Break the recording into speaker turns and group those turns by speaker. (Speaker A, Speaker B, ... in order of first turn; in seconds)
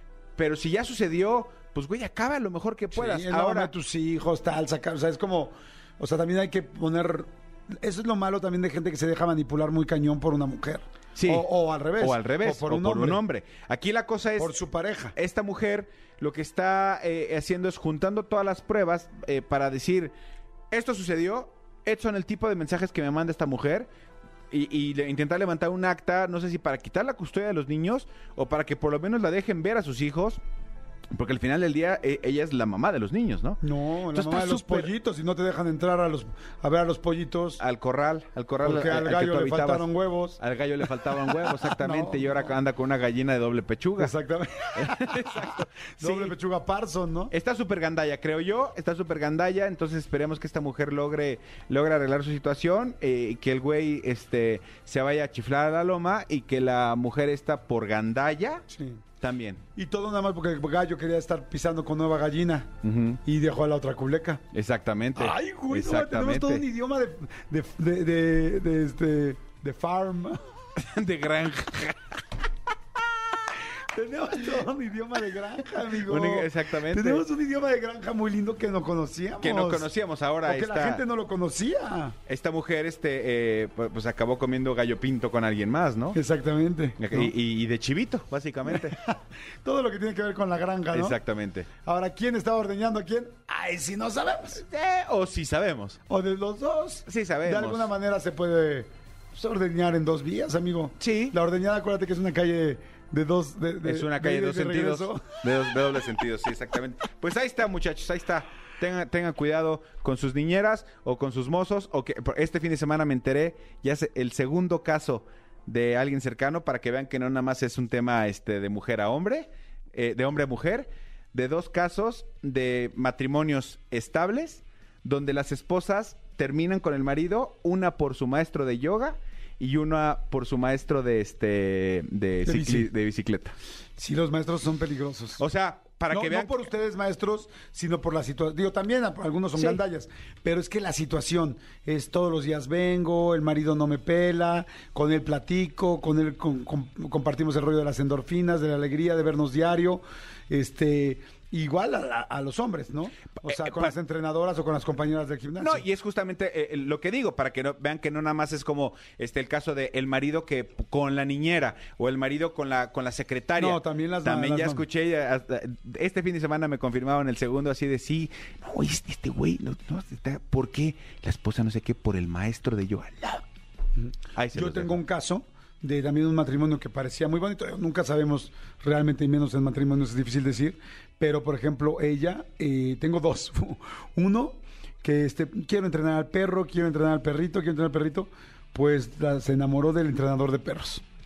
Speaker A: 0.3-3.7, 11.1-14.6, 15.1-20.1, 20.7-23.9, 24.5-30.4, 31.1-34.9, 37.6-44.1, 44.8-46.4, 47.3-58.6, 59.2-59.6, 62.8-63.2, 64.5-66.6, 70.8-72.2, 76.0-77.2, 79.4-81.0, 82.2-86.2, 87.0-89.0, 90.9-91.7, 94.5-96.0, 97.0-97.9, 101.0-101.3, 103.8-133.6, 135.4-136.7, 153.4-153.9, 155.6-173.4, 174.3-175.0
Speaker B: 2.9-7.3, 7.8-13.2, 14.4-15.1, 33.6-37.6, 38.6-42.5, 44.0-47.3, 58.7-59.0, 59.8-62.7, 63.2-64.4, 65.1-70.4, 73.9-79.9, 80.4-82.1, 86.1-87.3, 88.7-91.2, 91.8-94.6, 96.1-105.3, 132.4-132.9, 134.0-135.4, 136.1-155.8, 163.6-164.8, 174.0-191.0